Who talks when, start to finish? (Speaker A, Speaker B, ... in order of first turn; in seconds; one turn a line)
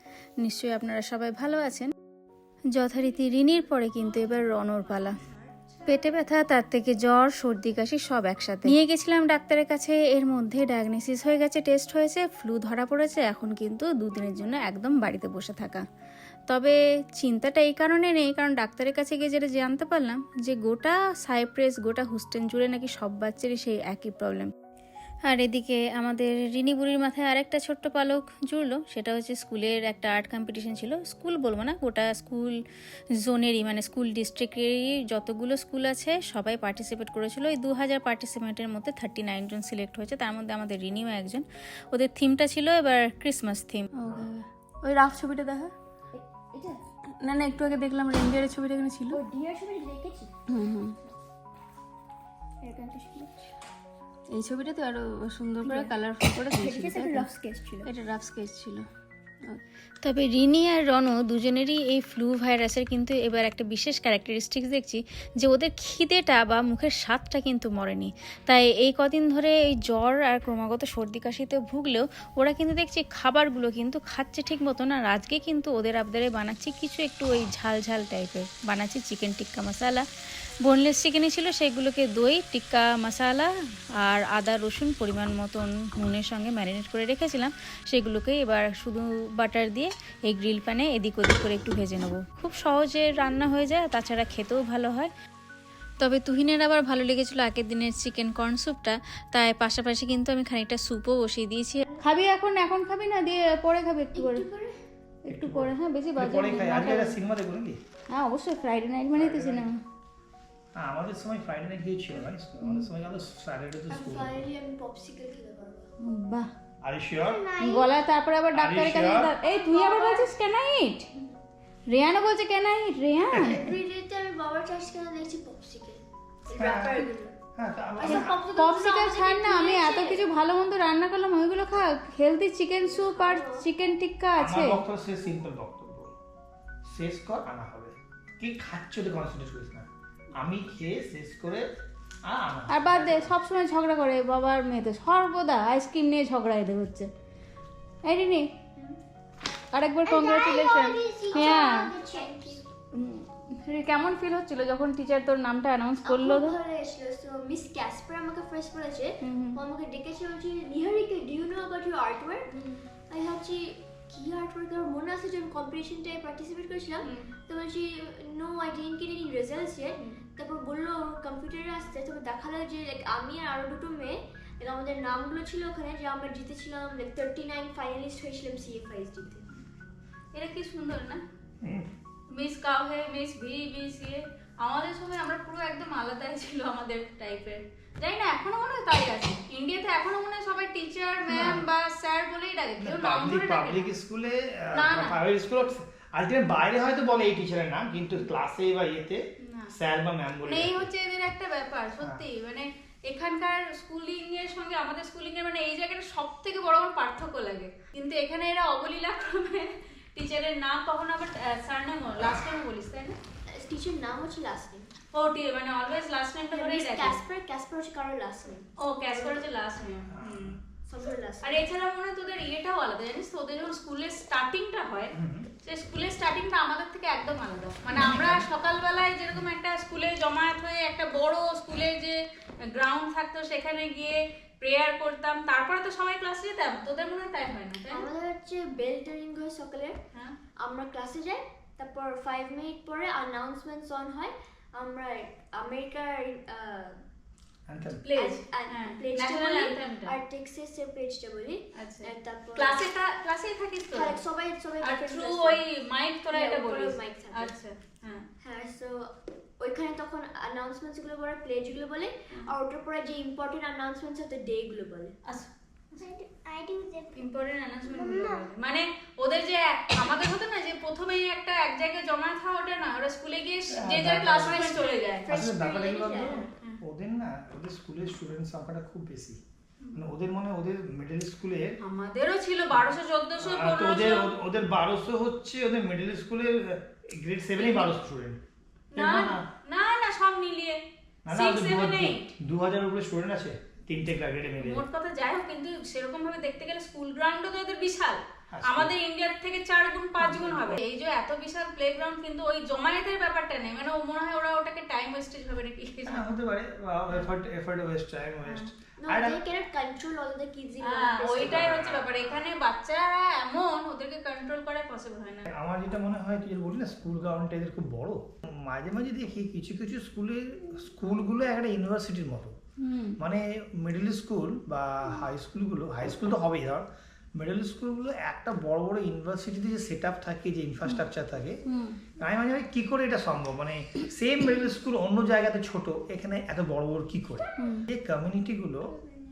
Speaker A: 0.4-1.9
Speaker A: 2.8-5.2
Speaker B: 4.2-5.8
Speaker A: 5.9-15.8
Speaker A: 16.5-24.5
Speaker A: 25.3-32.6
Speaker A: 33.2-45.7
Speaker B: 46.1-46.9
Speaker A: 47.1-49.2
Speaker B: 49.1-50.3
Speaker A: 50.5-51.0
Speaker B: 52.6-53.5
Speaker A: 54.3-57.3
Speaker B: 55.6-57.9
Speaker A: 57.9-58.9
Speaker A: 59.5-80.1
Speaker A: 80.6-95.1
Speaker A: 96.0-104.4
Speaker B: 101.9-102.2
Speaker B: 104.1-104.8
Speaker A: 105.3-107.2
Speaker C: 105.3-107.8
Speaker A: 108.1-109.8
Speaker C: 109.2-109.7
Speaker C: 110.8-114.4
Speaker A: 112.6-112.9
Speaker B: 113.9-115.9
Speaker A: 116.0-116.5
Speaker C: 116.8-117.4
Speaker B: 117.2-117.9
Speaker A: 117.6-121.1
Speaker C: 118.5-119.4
Speaker B: 119.4-120.3
Speaker A: 121.9-123.7
Speaker C: 123.3-123.7
Speaker B: 123.5-127.4
Speaker C: 126.5-128.3
Speaker B: 128.0-130.2
Speaker A: 128.0-134.8
Speaker B: 132.8-133.7
Speaker C: 134.4-136.1
Speaker C: 136.8-141.7
Speaker C: 142.2-143.3
Speaker A: 142.7-147.1
Speaker A: 148.1-148.5
Speaker A: 149.7-151.9
Speaker B: 150.1-152.7
Speaker A: 152.9-156.6
Speaker B: 156.0-162.5
Speaker A: 159.2-159.6
Speaker A: 162.5-162.8
Speaker B: 163.1-179.5
Speaker A: 167.0-167.3
Speaker A: 180.3-181.2
Speaker C: 181.6-181.9
Speaker A: 182.3-193.9
Speaker C: 191.3-191.7
Speaker C: 192.8-200.9
Speaker A: 194.7-195.2
Speaker A: 199.4-199.7
Speaker A: 200.4-213.2
Speaker B: 213.5-214.9
Speaker A: 215.1-217.2
Speaker B: 216.5-219.5
Speaker A: 218.8-220.6
Speaker C: 220.1-220.6
Speaker B: 220.9-221.6
Speaker A: 221.4-238.1
Speaker C: 225.2-225.5
Speaker C: 227.9-228.5
Speaker B: 237.9-240.0
Speaker B: 240.6-247.0
Speaker C: 247.7-248.0
Speaker A: 247.9-250.2
Speaker B: 248.2-252.9
Speaker A: 251.8-254.2
Speaker B: 253.9-255.6
Speaker A: 254.8-258.2
Speaker B: 256.3-257.5
Speaker B: 258.4-265.2
Speaker A: 265.3-266.2
Speaker B: 266.5-267.1
Speaker A: 267.1-275.3
Speaker C: 273.7-279.4
Speaker B: 275.2-276.5
Speaker C: 279.9-281.8
Speaker A: 281.8-284.3
Speaker C: 283.4-288.4
Speaker A: 287.6-288.0
Speaker A: 288.9-292.3
Speaker C: 288.9-289.4
Speaker C: 291.3-294.8
Speaker A: 294.6-306.3
Speaker C: 298.5-298.9
Speaker C: 300.2-300.8
Speaker C: 306.1-309.4
Speaker A: 308.4-308.7
Speaker B: 309.0-311.6
Speaker A: 310.8-315.5
Speaker C: 311.3-312.4
Speaker C: 315.5-322.6
Speaker A: 322.8-323.2
Speaker C: 323.2-331.6
Speaker A: 331.6-332.0
Speaker C: 332.2-339.0
Speaker A: 337.6-337.9